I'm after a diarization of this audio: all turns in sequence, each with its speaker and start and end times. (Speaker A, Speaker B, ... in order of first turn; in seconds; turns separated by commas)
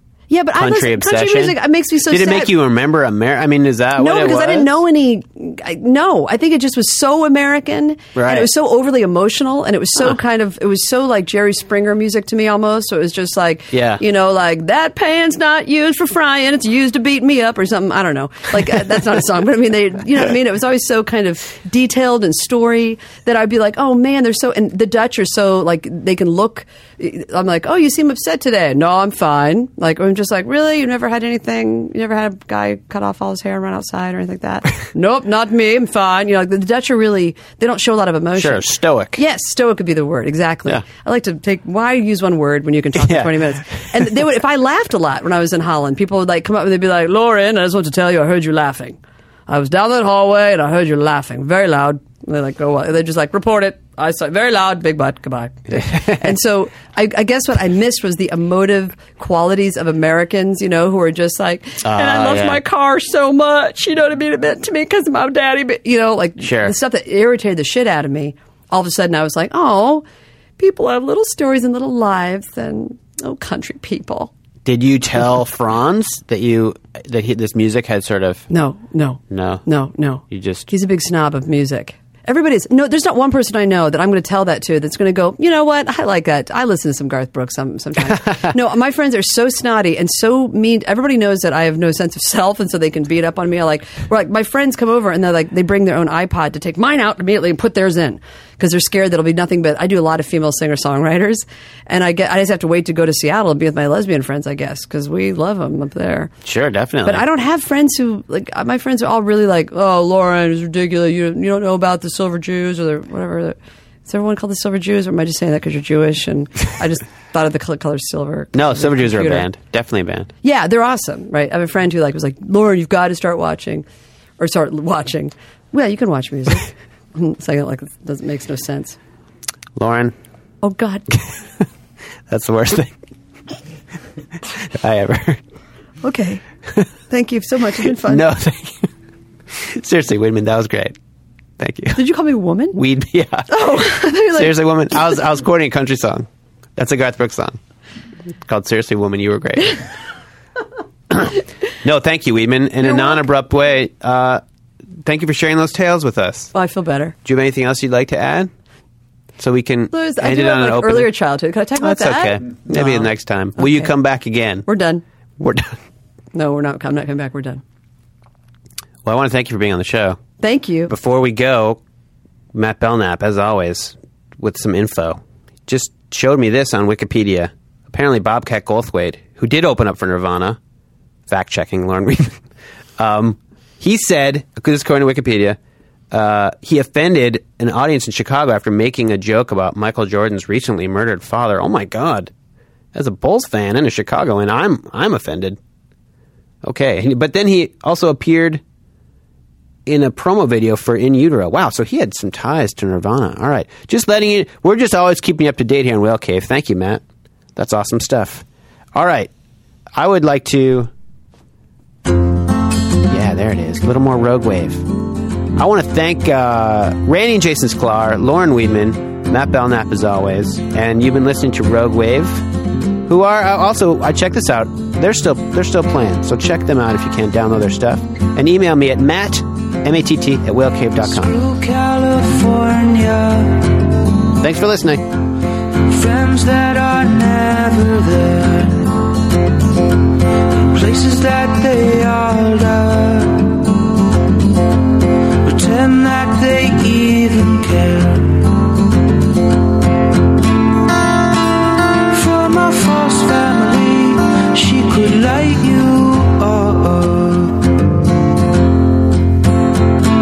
Speaker A: 0.3-2.5, Speaker B: 0.5-4.7, Speaker A: 4.0-70.0, Speaker B: 8.1-8.5, Speaker B: 13.7-14.0, Speaker B: 38.4-39.2, Speaker B: 42.9-44.0, Speaker B: 55.8-56.2, Speaker B: 61.8-62.6, Speaker B: 66.4-66.7, Speaker A: 70.6-74.3, Speaker B: 74.6-78.4, Speaker A: 78.5-106.3, Speaker B: 79.3-79.6, Speaker B: 80.3-80.7, Speaker B: 106.4-107.2, Speaker A: 107.0-119.5, Speaker B: 118.5-120.3, Speaker A: 120.4-123.8, Speaker A: 124.4-129.0, Speaker B: 129.8-130.1, Speaker A: 130.6-131.2, Speaker B: 132.3-133.0, Speaker B: 134.6-135.4, Speaker A: 136.0-136.4, Speaker A: 137.1-138.2, Speaker B: 138.0-138.9, Speaker B: 139.5-140.9, Speaker B: 141.6-142.0, Speaker A: 141.9-142.8, Speaker B: 142.7-143.7, Speaker A: 143.5-144.5, Speaker B: 144.3-147.6, Speaker B: 148.5-149.8, Speaker B: 151.1-154.4, Speaker A: 152.8-153.2, Speaker B: 155.0-156.5, Speaker A: 156.5-157.2, Speaker B: 157.2-158.5, Speaker B: 159.4-161.1, Speaker A: 159.9-163.9, Speaker B: 161.8-164.7, Speaker A: 164.6-165.0, Speaker B: 165.4-165.7, Speaker A: 166.3-167.6, Speaker B: 169.0-170.2, Speaker A: 170.4-170.9, Speaker B: 170.9-171.8, Speaker B: 172.5-180.6, Speaker B: 181.3-182.4, Speaker B: 183.0-185.6, Speaker B: 186.1-192.3, Speaker B: 192.9-195.6, Speaker B: 196.6-198.6, Speaker B: 199.8-207.0, Speaker B: 207.6-208.4, Speaker B: 208.9-209.3, Speaker B: 209.9-210.9, Speaker B: 213.1-214.9, Speaker B: 215.6-222.4, Speaker B: 223.0-231.4, Speaker C: 231.0-233.8, Speaker B: 234.4-235.1, Speaker C: 235.8-239.0, Speaker C: 240.7-243.7, Speaker C: 245.4-248.5, Speaker C: 252.1-257.8